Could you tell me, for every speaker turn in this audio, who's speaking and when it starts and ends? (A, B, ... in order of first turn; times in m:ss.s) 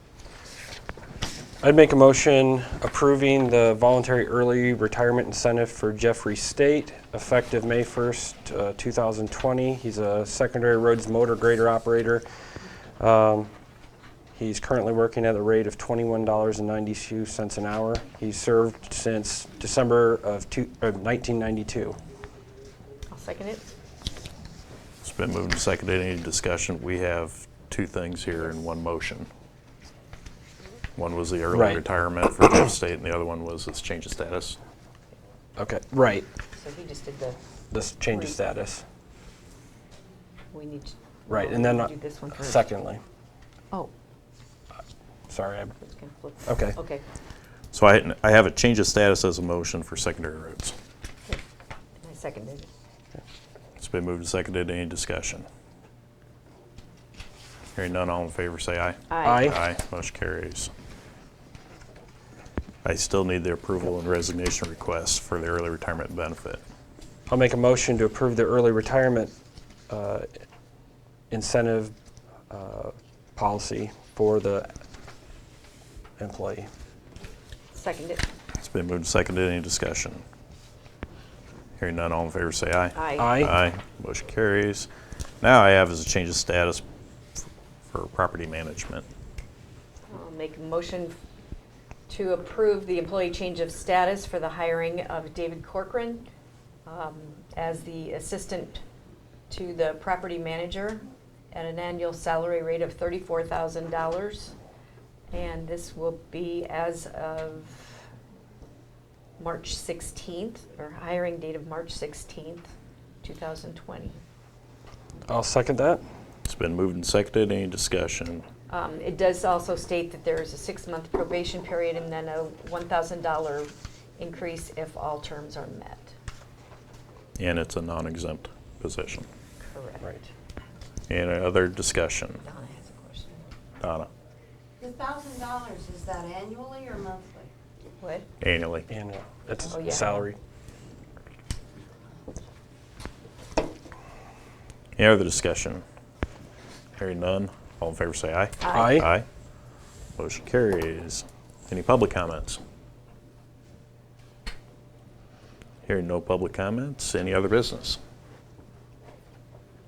0:01.6-0:12.2 A
0:13.0-0:13.5 A
0:14.3-0:22.0 A
0:23.1-0:23.7 B
0:25.0-0:29.3 C
0:31.0-0:34.6 C
0:31.5-0:31.8 A
0:35.6-0:36.3 A
0:36.6-0:37.4 B
0:37.7-0:38.8 A
0:38.1-0:38.4 B
0:40.5-0:42.7 B
0:41.3-0:43.0 A
0:45.3-0:45.8 A
0:45.8-0:47.0 B
0:46.5-0:46.8 A
0:47.7-0:50.8 C
0:52.0-0:52.7 B
0:53.8-0:55.4 C
0:57.8-1:00.7 C
0:59.1-0:59.5 B
0:59.2-0:59.6 A
1:02.8-1:06.6 C
1:07.3-1:09.3 A
1:09.9-1:10.3 A
1:11.3-1:11.9 A
1:12.5-1:14.7 A
1:16.2-1:16.7 A
1:17.7-1:18.2 B
1:18.6-1:20.2 C
1:21.8-1:24.9 C
1:23.0-1:23.4 B
1:23.2-1:23.5 A
1:25.4-1:26.8 C
1:27.9-1:29.1 C
1:30.1-1:31.2 B
1:32.1-1:36.3 B
1:36.9-1:38.8 B
1:39.5-1:44.6 B
1:45.3-1:48.0 B
1:49.4-1:52.7 B
1:53.2-1:54.2 B
1:55.3-1:56.0 A
1:56.4-1:58.5 C
1:58.7-2:06.2 B
2:07.4-2:09.3 C
2:09.6-2:10.3 B
2:11.1-2:12.4 C
2:12.4-2:13.4 B
2:13.8-2:14.1 C
2:14.8-2:17.5 D
2:18.0-2:18.3 B
2:18.4-2:18.9 C
2:18.9-2:20.4 A
2:19.6-2:20.3 B
2:25.0-2:25.8 C
2:27.0-2:29.3 C
2:28.6-2:29.0 B
2:28.7-2:29.1 A
2:30.2-2:32.6 C
2:35.8-2:38.0 C